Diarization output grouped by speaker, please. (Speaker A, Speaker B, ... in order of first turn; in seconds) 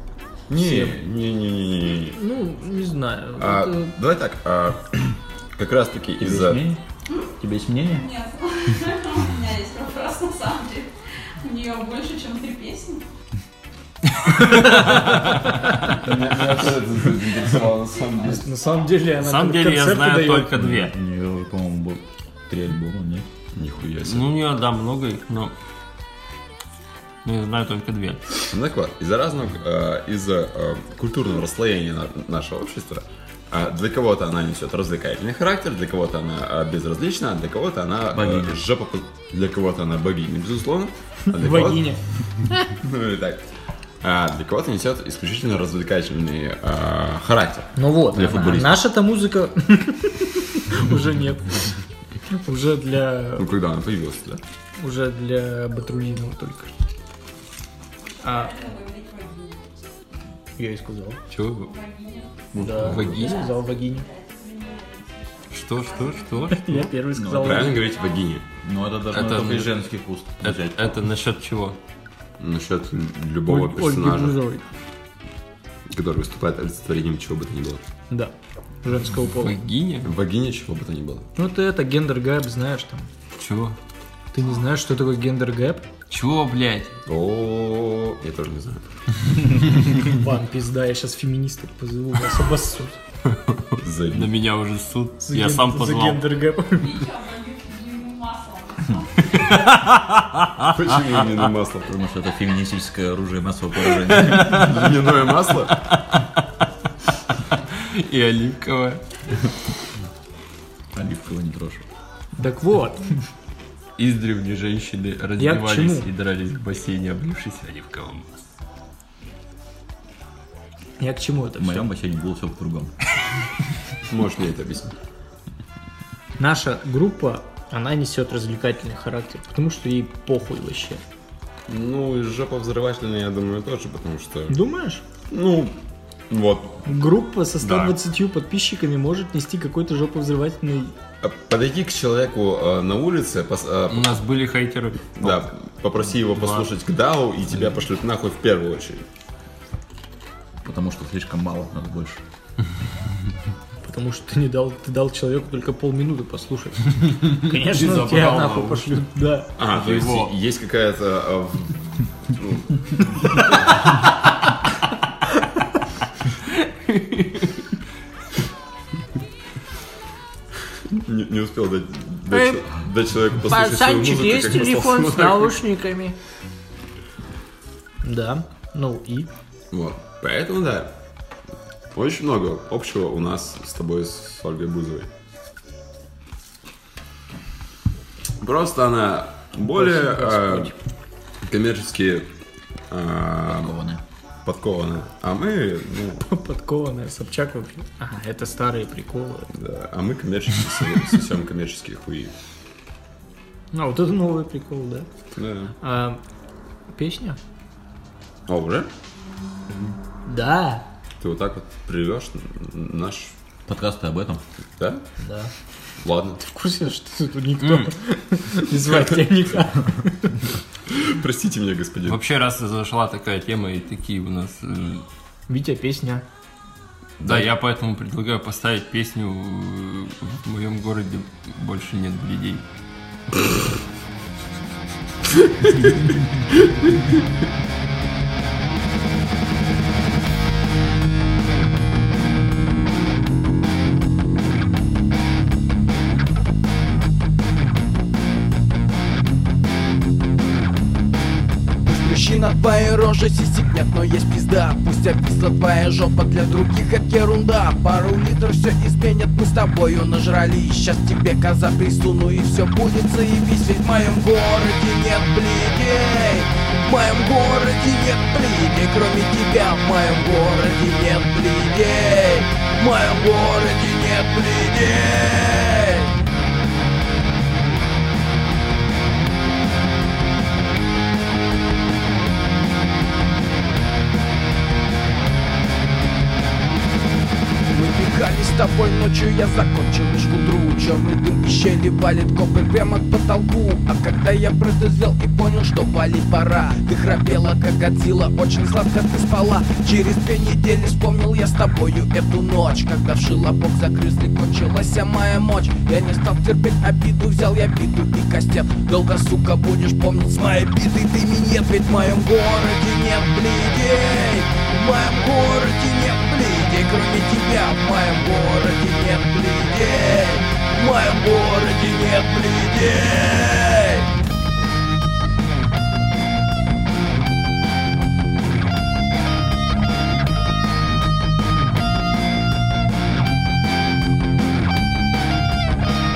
Speaker A: 0.5-2.2, 3.4-6.6, 15.9-18.4, 23.5-24.3, 28.5-42.0, 42.6-48.8, 53.4-54.4, 62.5-63.2, 67.4-68.5, 72.4-74.4, 75.9-77.8, 80.0-81.3, 87.1-88.9, 93.8-94.3, 100.7-102.0, 104.5-105.8, 124.0-125.0, 131.7-134.6, 135.3-135.8, 136.3-136.9, 141.2-144.2, 145.2-149.1, 159.6-163.8, 170.9-175.6, 179.7-181.0, 181.9-185.1, 188.4-190.7, 191.4-192.3, 192.9-193.8, 194.4-196.2, 199.5-202.3, 205.3-205.7, 208.5-208.9, 211.2-213.3, 214.8-215.1, 216.0-216.4, 220.9-222.2
Speaker B: 0.6-0.9, 2.1-3.9, 18.2-20.5, 41.3-42.7, 47.8-51.8, 52.3-53.5, 54.8-56.7, 58.2-58.6, 60.6-61.2, 62.6-64.1, 66.5-67.8, 73.5-74.7, 78.1-79.6, 81.4-83.1, 84.3-85.9, 89.9-93.0, 95.2-97.0, 112.4-113.1, 115.4-116.1, 121.0-121.9, 126.4-131.0, 134.5-135.0, 136.8-140.9, 153.8-159.6, 172.3-172.6, 173.5-176.2, 178.0-179.3, 189.6-190.8, 196.2-199.5, 203.7-205.1, 205.8-206.2, 206.9-207.4, 210.3-210.8, 215.2-215.5, 216.4-220.5, 225.5-226.2
Speaker C: 6.2-6.8, 7.4-8.1, 20.6-23.3, 38.1-38.6, 48.1-48.7, 67.1-67.8, 68.6-70.9, 101.9-104.8, 110.9-111.9, 121.6-122.9, 150.6-152.2, 193.5-194.0, 213.7-214.4
Speaker D: 7.9-13.0, 58.0-59.6, 61.6-66.8, 67.8-68.2, 96.7-99.5
Speaker E: 14.4-15.5, 19.2-20.9, 24.0-25.5, 27.2-28.4, 61.3-61.7, 62.7-63.5, 65.5-66.9, 69.1-69.7, 70.4-71.8, 79.4-80.1, 83.4-83.8, 86.1-87.0, 93.3-96.3, 99.3-100.7, 103.9-104.8, 105.7-106.6, 107.3-109.4, 114.0-118.3, 137.6-137.9, 143.9-145.5, 146.2-146.7, 157.2-159.0, 159.7-160.3, 166.9-167.6, 217.6-217.9, 222.1-225.1, 227.2-232.6
Speaker F: 251.8-276.1, 287.7-324.1